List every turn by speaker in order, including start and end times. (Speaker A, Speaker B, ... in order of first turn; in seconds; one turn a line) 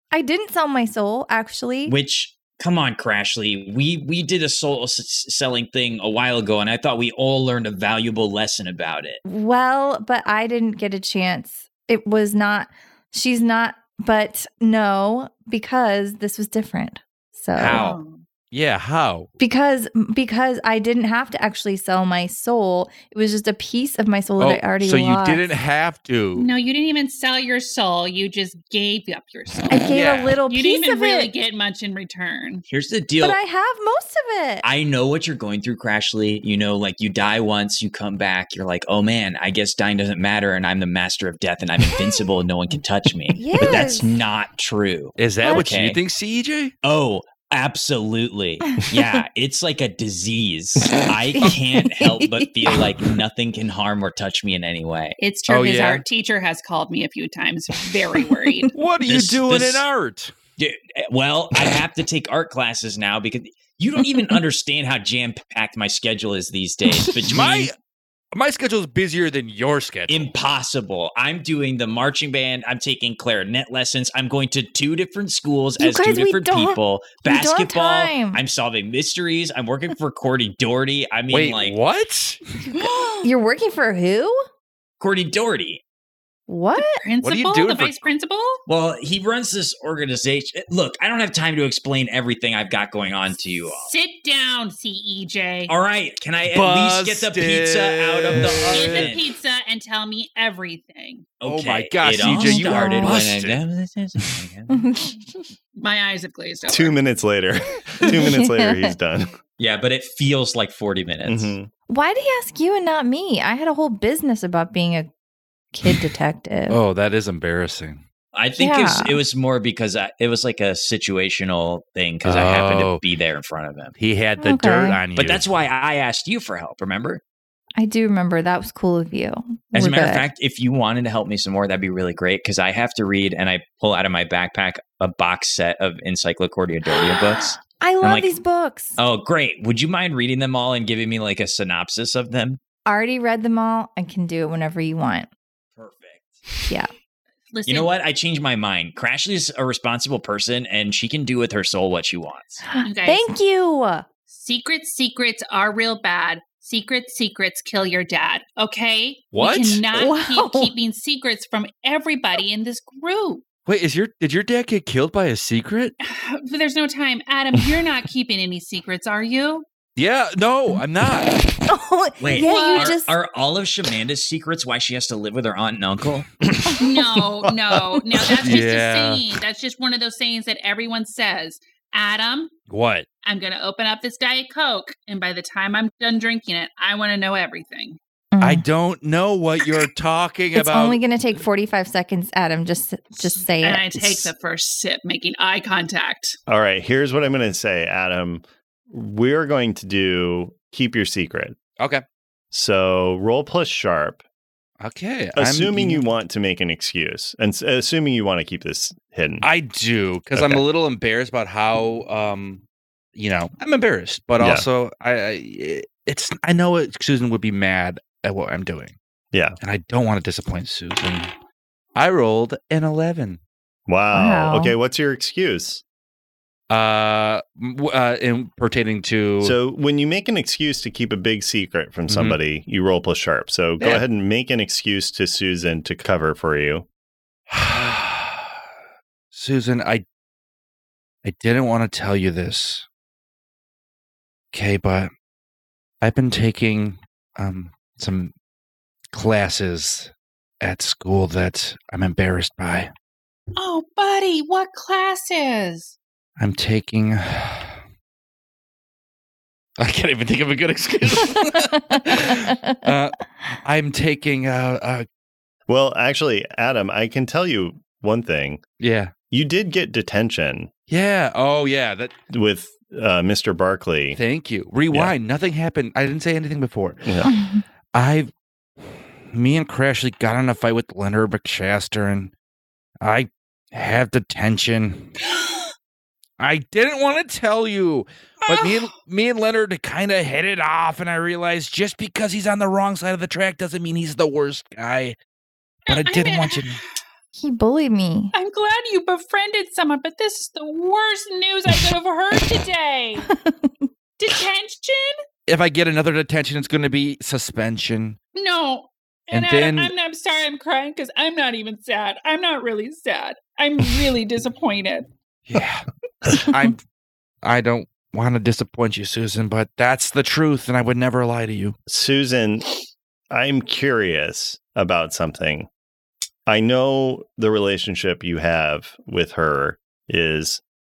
Speaker A: 0.1-1.9
Speaker B: 1.9-9.2
Speaker A: 9.2-17.8
Speaker B: 17.6-18.0
Speaker C: 17.7-18.2
Speaker D: 18.5-19.3
Speaker A: 19.4-25.4
Speaker D: 24.4-26.5
Speaker C: 26.3-32.6
Speaker A: 29.7-31.3
Speaker D: 29.9-30.4
Speaker B: 32.7-33.4
Speaker A: 33.2-34.6
Speaker B: 34.6-46.0
Speaker A: 43.4-44.1
Speaker D: 45.2-46.7
Speaker A: 45.4-45.7
Speaker B: 46.8-55.2
Speaker A: 51.4-52.5
Speaker C: 55.2-58.7
Speaker D: 55.5-56.0
Speaker D: 58.7-60.3
Speaker B: 59.0-59.8
Speaker B: 60.6-67.7
Speaker D: 67.2-67.7
Speaker D: 68.3-70.3
Speaker B: 70.1-81.8
Speaker A: 75.8-78.4
Speaker D: 81.3-82.4
Speaker A: 82.7-84.4
Speaker C: 82.8-83.2
Speaker B: 85.0-85.8
Speaker A: 86.5-87.0
Speaker C: 86.8-88.6
Speaker D: 87.2-88.1
Speaker B: 88.7-93.9
Speaker C: 93.7-95.7
Speaker B: 95.7-99.3
Speaker D: 96.5-99.2
Speaker C: 98.7-101.3
Speaker B: 101.4-104.8
Speaker D: 101.4-103.6
Speaker A: 102.2-103.2
Speaker A: 104.7-105.2
Speaker C: 105.8-107.0
Speaker E: 106.7-109.3
Speaker A: 108.0-108.9
Speaker B: 109.6-111.5
Speaker E: 111.2-111.7
Speaker A: 111.9-115.1
Speaker A: 115.7-116.8
Speaker D: 116.7-118.0
Speaker B: 118.3-123.9
Speaker A: 118.6-119.2
Speaker D: 122.2-123.0
Speaker D: 124.0-125.4
Speaker A: 124.4-125.0
Speaker B: 125.2-127.2
Speaker A: 127.8-130.2
Speaker B: 129.7-138.3
Speaker A: 137.1-139.0
Speaker B: 139.0-142.6
Speaker A: 142.8-145.3
Speaker B: 145.8-146.4
Speaker C: 147.5-147.9
Speaker B: 147.7-152.6
Speaker A: 152.7-154.1
Speaker C: 152.8-153.2
Speaker C: 154.3-163.4
Speaker D: 159.3-159.8
Speaker A: 159.9-160.7
Speaker D: 163.7-165.9
Speaker C: 166.0-169.7
Speaker D: 169.9-171.6
Speaker A: 171.7-173.1
Speaker B: 172.2-176.3
Speaker C: 172.3-173.0
Speaker C: 176.8-182.5
Speaker E: 177.4-177.8
Speaker D: 178.4-179.2
Speaker D: 182.7-183.1
Speaker C: 183.2-188.0
Speaker A: 188.3-188.6
Speaker D: 188.4-191.0
Speaker A: 190.5-194.3
Speaker C: 193.2-196.4
Speaker E: 196.5-201.6
Speaker D: 201.8-202.0
Speaker E: 202.5-204.2
Speaker D: 204.8-206.0
Speaker E: 205.3-209.4
Speaker D: 209.4-212.6
Speaker E: 210.3-210.6
Speaker D: 213.1-218.9
Speaker E: 214.4-214.7
Speaker D: 219.6-221.3
Speaker D: 221.9-223.4
Speaker E: 223.9-225.8
Speaker A: 224.1-224.7
Speaker D: 226.7-229.6
Speaker E: 229.4-236.8
Speaker D: 232.1-232.4
Speaker D: 237.5-238.5
Speaker D: 239.3-240.0
Speaker D: 241.2-242.8
Speaker D: 244.5-245.1
Speaker D: 246.0-248.3
Speaker D: 249.1-252.9
Speaker C: 253.6-255.9
Speaker D: 256.4-257.8
Speaker D: 259.8-265.1
Speaker A: 262.0-262.8
Speaker E: 265.7-268.6
Speaker D: 268.8-269.1
Speaker E: 269.3-270.7
Speaker D: 270.9-272.1
Speaker E: 272.3-274.2
Speaker D: 274.1-277.3
Speaker E: 277.0-277.3
Speaker A: 277.2-277.6
Speaker D: 277.9-282.3
Speaker D: 283.0-285.1
Speaker D: 286.4-295.2
Speaker C: 288.5-288.9
Speaker C: 295.9-297.0
Speaker D: 295.9-296.8
Speaker A: 297.4-298.3
Speaker C: 298.3-303.3
Speaker A: 303.2-303.9
Speaker C: 304.2-305.1
Speaker D: 305.5-308.2
Speaker C: 308.3-315.1
Speaker D: 309.3-309.9
Speaker D: 315.5-316.8
Speaker D: 317.4-321.8
Speaker E: 321.9-322.7
Speaker E: 323.3-325.7
Speaker E: 326.4-330.6